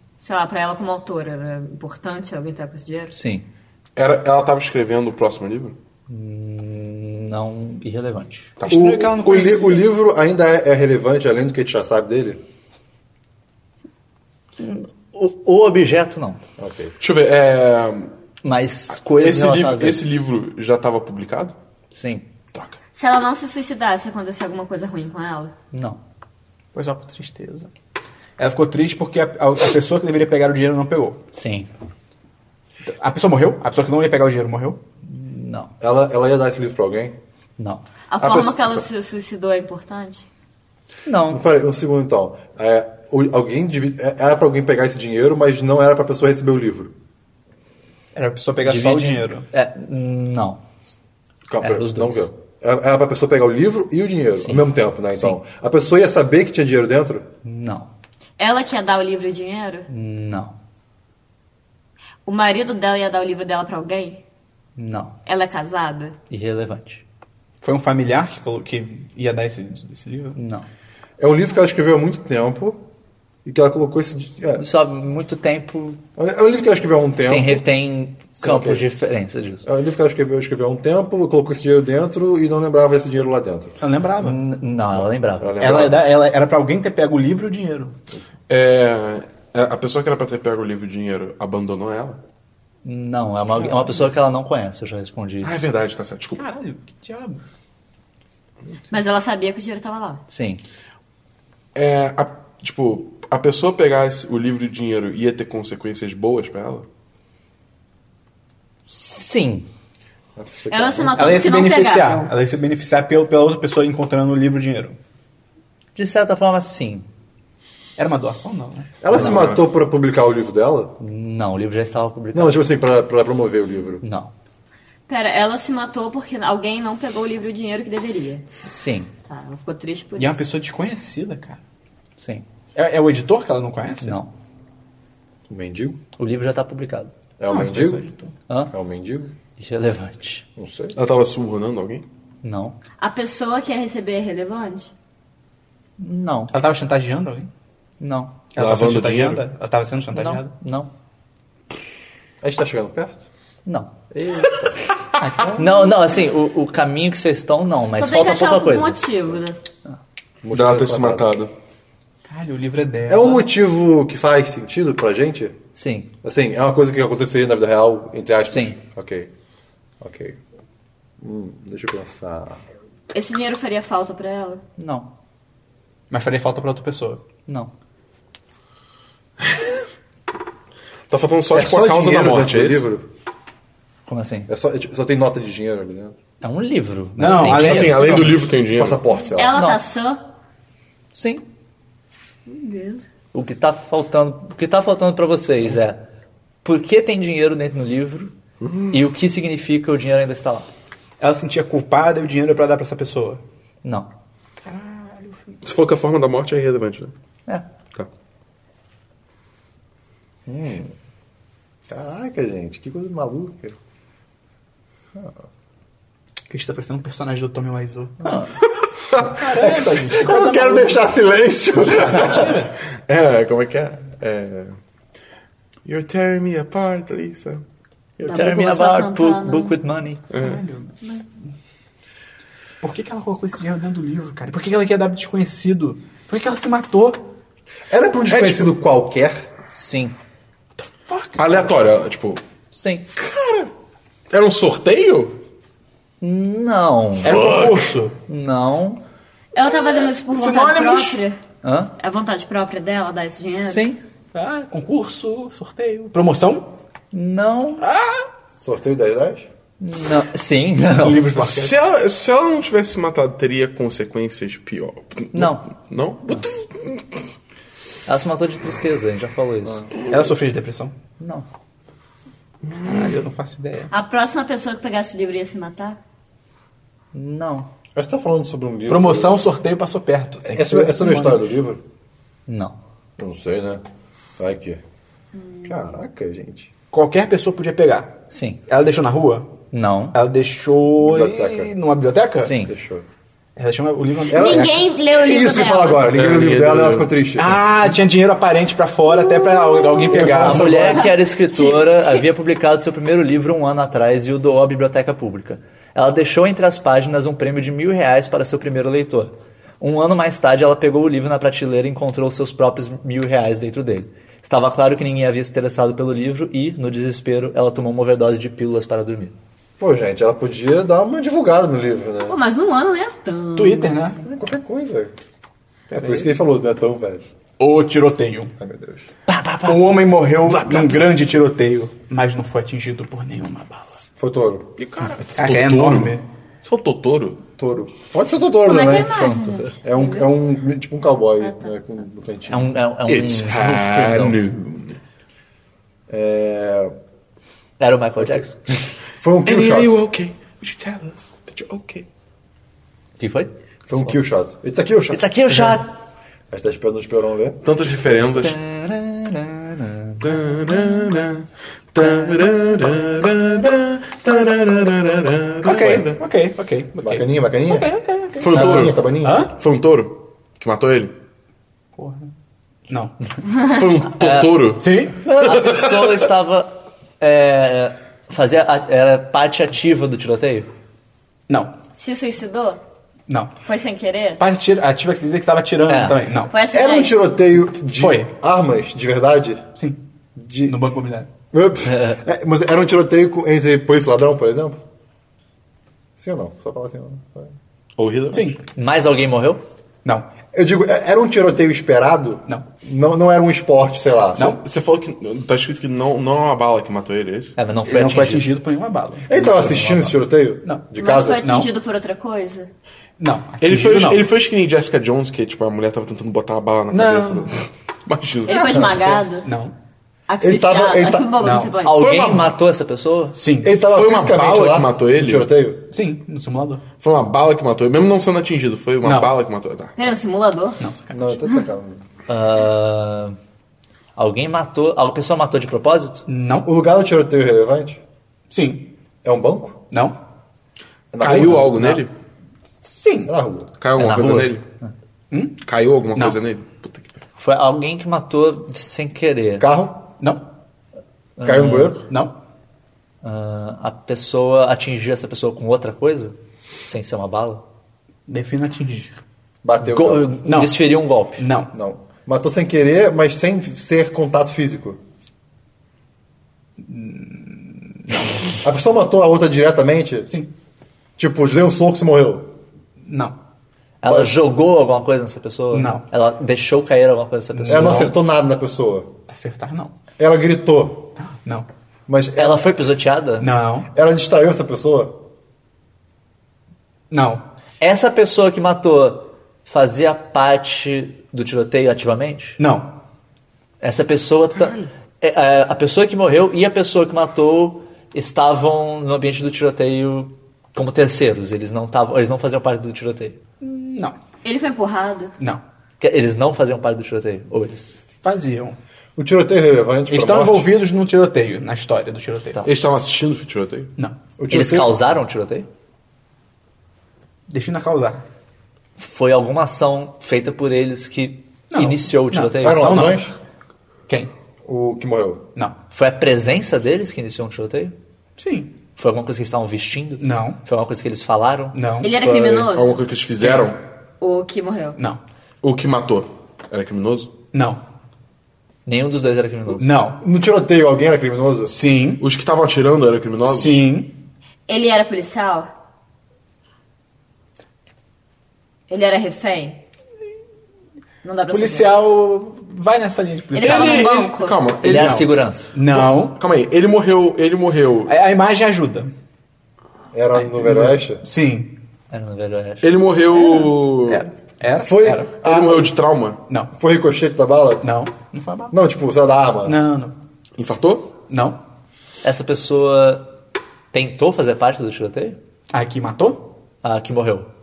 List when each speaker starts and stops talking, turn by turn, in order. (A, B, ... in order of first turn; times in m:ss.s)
0:00.2-0:03.1 A
0:03.1-0:03.4 B
0:04.0-0:05.8 C
0:06.1-0:08.5 B
0:08.6-0:08.9 C
0:08.6-0:09.8 D
0:08.7-0:12.4 E
0:14.6-0:16.4 B
0:16.6-0:16.9 E
0:17.0-0:18.1 C
0:18.4-0:20.0 B
0:19.0-0:21.5 C
0:21.9-0:22.2 B
0:22.9-0:25.5 A
0:25.7-0:26.0 B
0:26.7-0:27.7 D
0:28.4-0:31.2 D
0:31.3-0:31.7 B
0:32.8-0:34.8 D
0:35.1-0:35.7 B
0:35.8-0:37.2 E
0:37.6-0:37.8 B
0:38.1-0:40.2 A
0:38.2-0:38.7 C
0:41.0-0:41.4 B
0:41.3-0:46.9 E
0:48.1-0:49.5 D
0:48.6-0:50.6 B
0:51.5-0:57.3 E
0:51.6-0:52.2 B
0:54.4-0:55.4 B
0:57.4-0:57.9 B
0:58.4-0:59.9 A
0:59.9-1:00.5 B
1:02.2-1:04.2 A
1:04.8-1:05.1 B
1:05.2-1:06.2 A
1:06.3-1:07.0 B
1:07.6-1:10.4 D
1:10.4-1:10.6 B
1:11.2-1:12.8 E
1:13.4-1:14.6 E
1:14.6-1:16.0 B
1:16.2-1:17.6 E
1:17.3-1:19.6 B
1:18.4-1:18.8 E
1:19.6-1:23.7 E
1:23.8-1:24.4 D
1:24.2-1:25.6 B
1:25.4-1:26.0 E
1:25.6-1:27.9 D
1:28.5-1:32.2 C
1:32.8-1:35.6 B
1:35.4-1:36.4 C
1:36.4-1:37.4 D
1:38.9-1:40.2 A
1:40.3-1:40.6 B
1:41.7-1:46.8 C
1:48.9-1:49.7 B
1:50.4-1:51.5 E
1:50.7-1:52.3 A
1:51.2-1:55.0 D
1:55.9-1:57.0 B
1:58.0-1:58.9 D
1:59.0-2:00.9 E
1:59.1-1:59.6 C
2:01.0-2:02.6 B
2:02.3-2:04.0 E
2:04.0-2:04.3 B
2:05.1-2:08.5 A
2:08.6-2:09.1 B
2:09.3-2:10.4 A
2:10.2-2:11.6 D
2:12.7-2:14.2 D
2:14.0-2:14.3 B
2:15.5-2:16.0 E
2:16.2-2:17.1 B
2:17.4-2:18.0 E
2:17.5-2:18.3 D
2:18.7-2:19.3 E
2:19.6-2:20.4 B
2:20.6-2:21.0 E
2:20.9-2:22.0 C
2:22.4-2:22.8 B
2:23.0-2:24.9 A
2:26.0-2:26.5 B
2:26.5-2:27.5 D
2:28.0-2:28.4 B
2:28.5-2:30.5 D
2:28.5-2:29.4 C
2:30.1-2:30.9 B
2:32.4-2:33.2 E
2:33.6-2:33.9 B
2:34.1-2:34.8 E
2:35.2-2:35.9 D
2:35.6-2:39.0 B
2:38.0-2:39.6 A
2:40.4-2:41.3 E
2:40.5-2:41.5 C
2:42.3-2:43.5 D
2:43.1-2:45.6 E
2:45.8-2:46.1 B
2:46.2-2:49.3 E
2:48.5-2:48.8 B
2:50.0-2:50.4 E
2:51.2-2:52.6 E
2:53.1-2:54.6 A
2:54.8-2:55.1 B
2:56.1-2:57.2 D
3:01.1-3:02.9 C
3:01.5-3:03.1 E
3:04.0-3:04.5 B
3:04.5-3:06.1 E
3:06.4-3:08.3 B
3:07.2-3:08.1 D
3:07.4-3:09.0 C
3:07.7-3:09.6 E
3:09.3-3:10.2 A
3:09.5-3:09.8 B
3:11.1-3:11.4 B
3:12.5-3:13.0 A
3:13.3-3:16.0 B
3:16.6-3:18.3 B
3:18.6-3:19.0 C
3:18.9-3:20.7 B
3:21.2-3:23.4 D
3:23.8-3:24.1 B
3:24.6-3:25.6 D
3:25.6-3:27.1 C
3:30.5-3:30.9 E
3:31.9-3:33.8 E
3:36.5-3:38.4 D
3:38.2-3:38.5 B
3:38.8-3:39.3 C
3:39.2-3:41.1 D
3:39.4-3:42.6 E
3:41.9-3:42.7 D
3:43.1-3:44.8 C
3:45.8-3:47.6 C
3:48.2-3:50.2 B
3:48.2-3:49.7 A
3:50.3-3:50.6 C
3:50.4-3:51.2 D
3:52.8-3:57.2 D
3:57.9-3:59.5 E
3:58.3-3:58.7 C
3:59.7-4:00.1 B
4:00.9-4:01.6 D
4:01.3-4:02.4 C
4:02.7-4:03.0 B
4:03.2-4:03.7 C
4:04.3-4:05.4 C
4:06.2-4:07.5 B
4:07.2-4:08.2 D
4:07.3-4:07.8 C
4:08.2-4:09.0 B
4:09.5-4:11.4 A
4:10.3-4:11.2 D
4:11.6-4:11.9 B
4:12.0-4:13.8 A
4:13.6-4:14.0 B
4:14.3-4:16.7 D
4:17.1-4:17.8 B
4:17.8-4:18.2 D
4:18.6-4:19.5 E
4:19.8-4:21.3 B
4:20.9-4:21.7 D
4:21.4-4:27.1 C
4:25.3-4:25.6 B
4:28.0-4:29.9 B
4:30.1-4:30.9 D
4:31.2-4:31.4 B
4:32.6-4:33.1 C
4:32.8-4:33.9 D
4:33.9-4:36.0 A
4:37.1-4:37.7 B
4:38.0-4:39.4 E
4:38.9-4:41.5 D
4:40.5-4:41.8 E
4:42.5-4:42.8 B
4:43.2-4:43.8 E
4:44.4-4:44.8 E
4:45.4-4:45.6 A
4:45.6-4:46.7 E
4:46.9-4:49.5 D
4:48.3-4:48.6 B
4:49.7-4:50.2 B
4:50.1-4:52.5 D
4:51.0-4:51.7 E
4:52.4-4:52.7 B
4:52.6-4:53.0 E
4:53.6-4:54.8 D
4:54.3-4:57.7 E
4:54.3-4:56.1 A
4:56.1-4:57.1 C
4:57.4-5:01.0 D
4:59.2-5:02.1 A
5:00.1-5:19.3 B
5:00.2-5:00.7 E
5:19.8-5:22.4 E
5:22.3-5:24.3 A
5:23.6-5:24.2 D
5:24.3-5:25.1 E
5:25.9-5:26.4 D
5:26.0-5:27.2 E
5:27.6-5:28.5 D
5:28.6-5:29.1 E
5:29.3-5:29.9 B
5:29.6-5:33.9 D
5:30.4-5:31.1 C
5:34.2-5:34.7 E
5:34.8-5:37.4 C
5:35.3-5:36.2 D
5:37.6-5:42.7 E
5:38.6-5:40.3 A
5:41.4-5:41.7 A
5:42.5-5:44.4 B
5:43.0-5:45.0 C
5:46.1-5:46.9 E
5:47.8-5:48.8 B
5:48.2-5:48.4 E
5:49.2-5:50.0 E
5:49.4-5:52.0 C
5:53.2-5:54.1 B
5:53.9-5:55.8 E
5:55.1-5:55.9 B
5:56.5-5:57.6 E
5:57.6-5:58.6 C
5:58.2-6:00.4 B
6:00.2-6:06.2 C
6:05.6-6:09.5 D
6:07.0-6:07.9 E
6:08.4-6:11.1 C
6:08.5-6:09.5 E
6:12.0-6:12.3 D
6:12.9-6:13.2 D
6:13.6-6:14.8 C
6:14.1-6:14.6 B
6:14.8-6:15.2 D
6:15.3-6:15.8 E
6:15.3-6:20.7 B
6:15.4-6:16.3 C
6:21.5-6:21.7 D
6:22.0-6:22.8 A
6:23.3-6:23.5 D
6:23.6-6:24.4 A
6:24.4-6:26.5 D
6:25.9-6:26.2 B
6:26.5-6:27.3 A
6:26.7-6:29.7 E
6:27.8-6:28.3 D
6:30.4-6:30.8 E
6:30.6-6:31.3 D
6:31.5-6:34.8 E
6:31.9-6:32.2 B
6:36.2-6:37.5 E
6:38.0-6:38.6 C
6:38.3-6:38.6 D
6:38.7-6:39.6 B
6:40.5-6:44.6 E
6:44.3-6:44.6 D
6:44.6-6:47.6 C
6:47.6-6:48.5 B
6:47.8-6:50.1 D
6:49.3-6:51.6 E
6:51.0-6:52.7 A
6:51.4-6:51.7 D
6:53.2-6:54.3 D
6:53.6-6:58.9 C
6:56.9-6:57.6 D
6:58.4-6:59.5 A
6:58.5-6:59.2 E
6:59.4-6:59.7 D
7:00.3-7:02.1 A
7:00.4-7:01.4 E
7:01.4-7:01.7 D
7:01.8-7:03.4 B
7:02.0-7:02.5 C
7:03.3-7:03.8 D
7:03.6-7:05.9 E
7:03.9-7:05.5 C
7:05.9-7:06.8 D
7:07.0-7:10.0 C
7:09.0-7:09.3 D
7:10.0-7:10.8 A
7:10.8-7:11.3 D
7:11.1-7:12.0 E
7:12.3-7:13.4 B
7:14.2-7:16.2 B
7:16.3-7:16.7 D
7:16.6-7:18.0 E
7:18.5-7:18.9 D
7:19.2-7:19.8 E
7:19.9-7:20.2 D
7:21.1-7:21.7 E
7:21.2-7:22.1 C
7:21.2-7:22.0 D
7:22.8-7:23.3 D
7:23.2-7:23.7 E
7:23.8-7:24.6 C
7:23.9-7:24.9 B
7:25.3-7:25.6 D
7:25.6-7:27.2 C
7:27.4-7:29.6 B
7:29.6-7:30.1 E
7:31.4-7:32.0 B
7:31.4-7:32.0 E
7:32.0-7:32.4 D
7:33.2-7:36.3 B
7:36.8-7:37.6 B
7:38.3-7:39.2 D
7:39.6-7:40.4 E
7:39.8-7:41.5 B
7:40.4-7:40.8 D
7:41.4-7:41.7 D
7:41.7-7:45.0 E
7:46.8-7:48.6 D
7:48.6-7:50.3 E
7:51.2-7:52.5 E
7:53.0-7:53.4 D
7:54.0-7:58.1 B
7:54.0-7:54.3 E
7:55.7-7:56.0 D
7:57.5-7:58.1 D
7:57.7-7:59.1 E
7:59.3-7:59.9 D
8:00.2-8:01.1 E
8:01.2-8:01.7 D
8:02.1-8:02.7 E
8:02.4-8:03.5 B
8:03.4-8:03.9 D
8:03.9-8:05.2 E
8:07.1-8:07.4 D
8:07.8-8:12.6 B
8:12.6-8:13.0 D
8:13.8-8:23.4 B
8:23.6-8:24.1 D
8:24.4-8:25.3 A
8:26.0-8:28.0 B
8:28.2-8:28.8 D
8:29.2-8:30.7 E
8:30.1-8:32.6 D
8:32.6-8:33.9 C
8:34.4-8:34.9 E
8:34.5-8:35.7 B
8:37.5-8:38.2 D
8:39.0-8:43.2 B
8:41.7-8:43.3 D
8:42.6-8:43.4 E
8:44.6-8:45.4 E
8:45.9-8:47.9 B
8:48.4-8:48.7 D
8:49.0-8:52.6 B
8:50.2-8:50.6 D
8:51.7-8:52.1 D
8:52.0-8:53.0 A
8:52.6-8:53.8 C
8:53.4-8:53.7 D
8:54.2-8:55.0 A
8:55.0-8:55.2 D
8:55.6-8:57.3 C
8:57.5-8:57.8 D
8:58.8-8:59.9 B
8:59.8-9:00.2 D
9:00.2-9:01.7 E
9:01.6-9:02.2 D
9:02.2-9:03.8 C
9:03.5-9:04.2 D
9:04.7-9:05.7 A
9:08.9-9:09.8 A
9:11.2-9:11.9 A
9:11.5-9:14.3 D
9:13.5-9:14.6 A
9:13.6-9:18.1 C
9:14.8-9:15.8 B
9:14.8-9:16.4 D
9:18.0-9:19.1 D
9:20.1-9:21.2 E
9:20.3-9:21.8 D
9:22.1-9:22.9 B
9:22.8-9:24.3 C
9:24.0-9:25.3 D
9:24.8-9:25.9 E
9:25.4-9:26.4 C
9:26.7-9:27.9 E
9:27.8-9:28.7 D
9:28.7-9:29.8 E
9:29.6-9:30.1 D
9:30.6-9:31.1 C
9:31.3-9:31.6 D
9:32.2-9:33.2 B
9:33.9-9:35.4 B
9:35.7-9:36.5 D
9:36.8-9:37.5 B